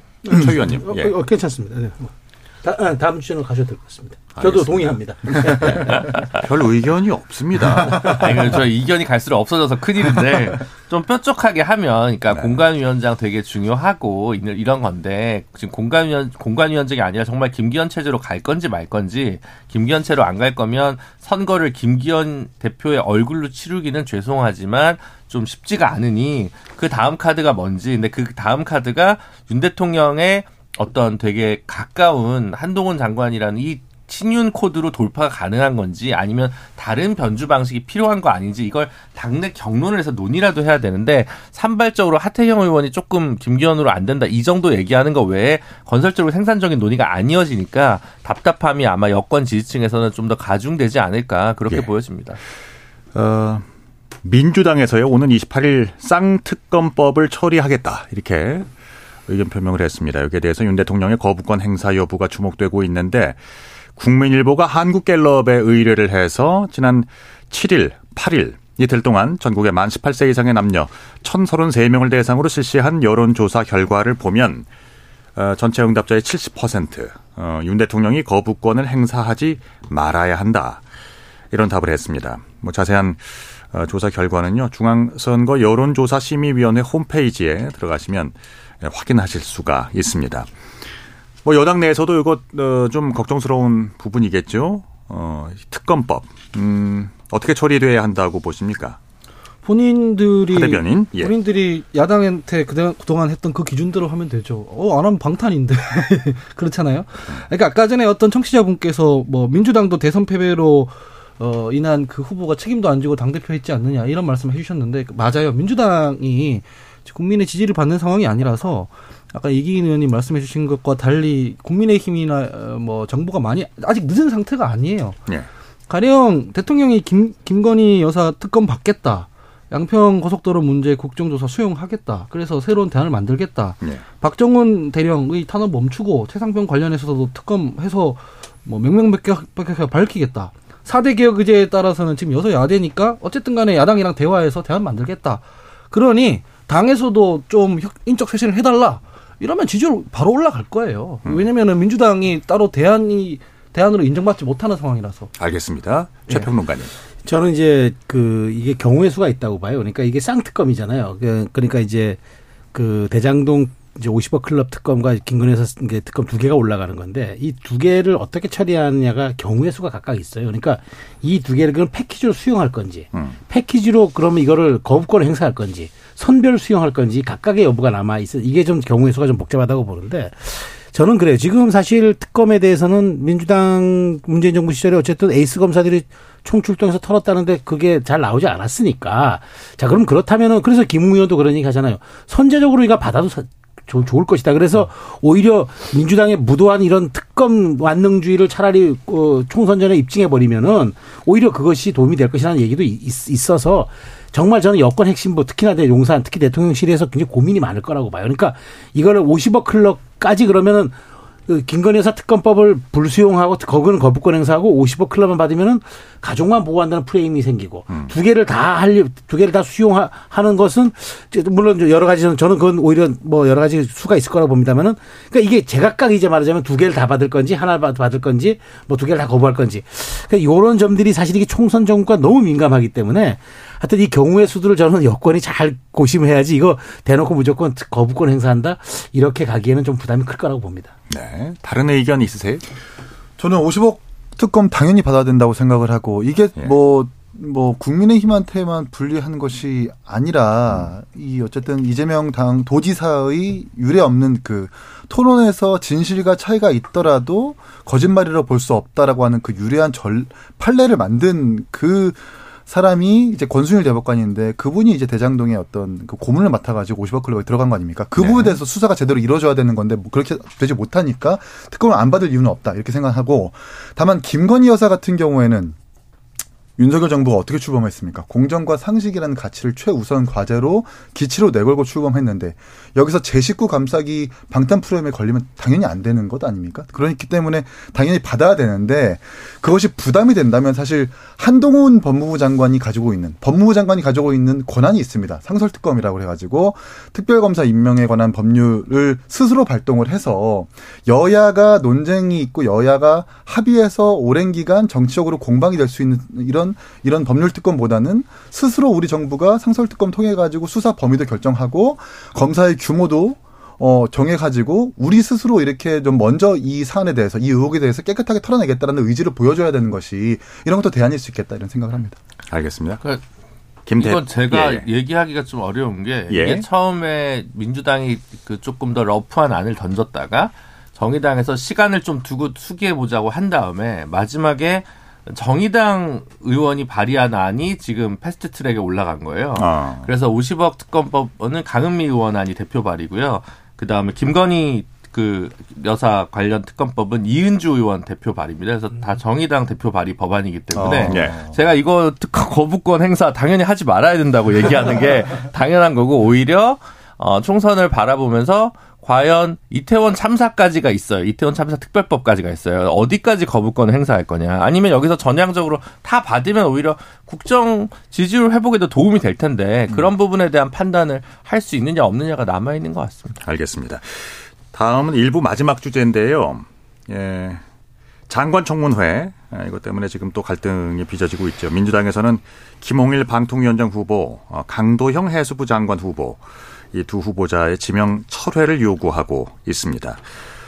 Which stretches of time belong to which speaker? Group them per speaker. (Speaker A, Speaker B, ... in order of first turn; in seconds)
Speaker A: 0.2-6.2, 157.2-162.2, 162.7-211.0, 211.5-240.9
Speaker B: 0.3-1.1, 4.4-8.2, 12.3-12.6, 53.1-53.7, 54.2-58.7, 59.3-63.4, 64.0-74.7, 75.4-80.8, 81.5-90.5, 91.5-99.0, 100.5-101.3, 155.4-156.9, 241.1-242.6, 268.2-268.6, 322.5-323.0, 323.9-324.9, 326.3-326.6, 339.6-340.1, 350.8-351.4, 373.4-377.6, 378.3-390.2
Speaker C: 8.0-52.4, 324.0-373.4
Speaker D: 99.6-125.2, 125.9-155.3
Speaker E: 243.4-275.8, 276.8-322.2, 350.8-351.5